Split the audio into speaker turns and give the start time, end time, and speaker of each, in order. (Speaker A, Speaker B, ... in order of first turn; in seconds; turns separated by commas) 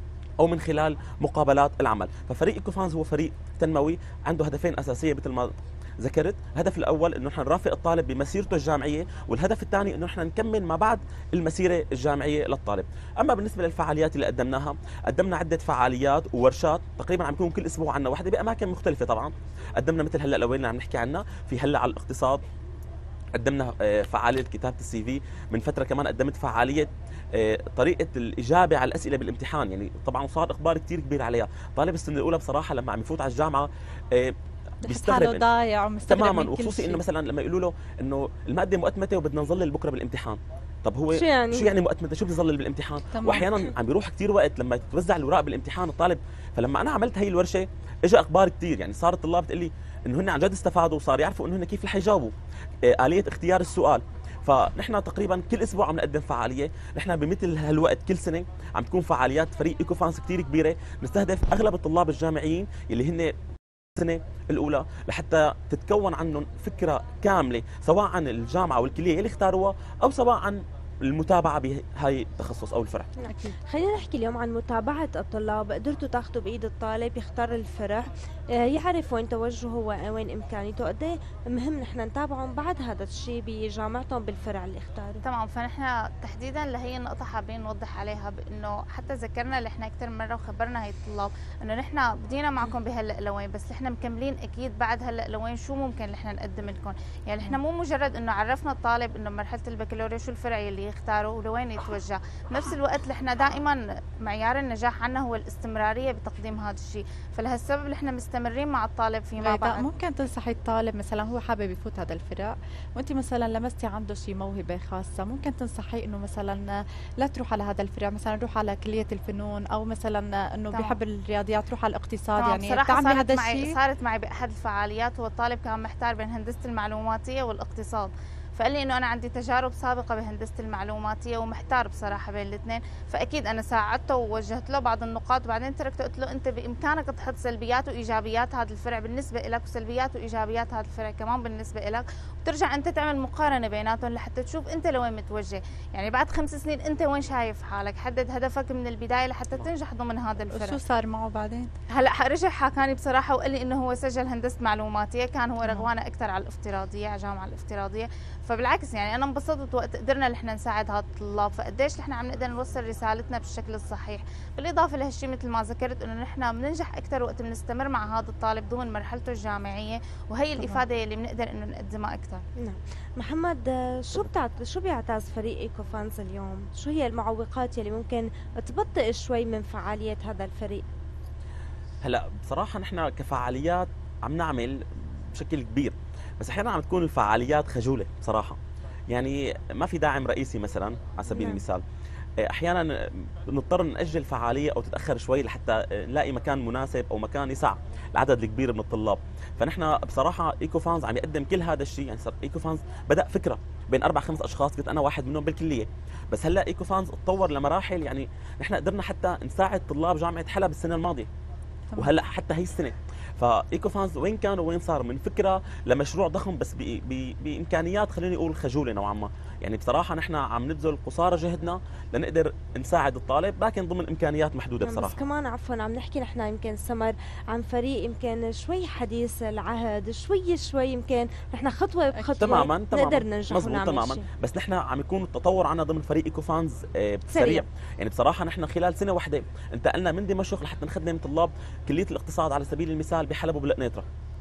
Speaker A: 0.4-22.4, Speaker A: 23.4-35.4, Speaker B: 34.8-37.0, Speaker A: 36.1-63.3, Speaker C: 41.1-41.7, Speaker B: 43.1-43.7, Speaker A: 64.0-73.1, Speaker C: 73.2-85.2, Speaker B: 73.3-73.5, Speaker D: 85.2-109.9, Speaker B: 109.4-123.8, Speaker D: 120.7-121.0, Speaker D: 122.4-150.8, Speaker B: 150.5-151.7, Speaker D: 151.9-172.4, Speaker B: 155.6-155.9, Speaker C: 172.6-180.8, Speaker A: 182.0-188.6, Speaker A: 189.1-191.8, Speaker A: 192.4-211.3, Speaker A: 212.0-225.2, Speaker C: 224.8-234.3, Speaker B: 232.2-232.6, Speaker A: 232.4-244.1, Speaker C: 237.3-237.7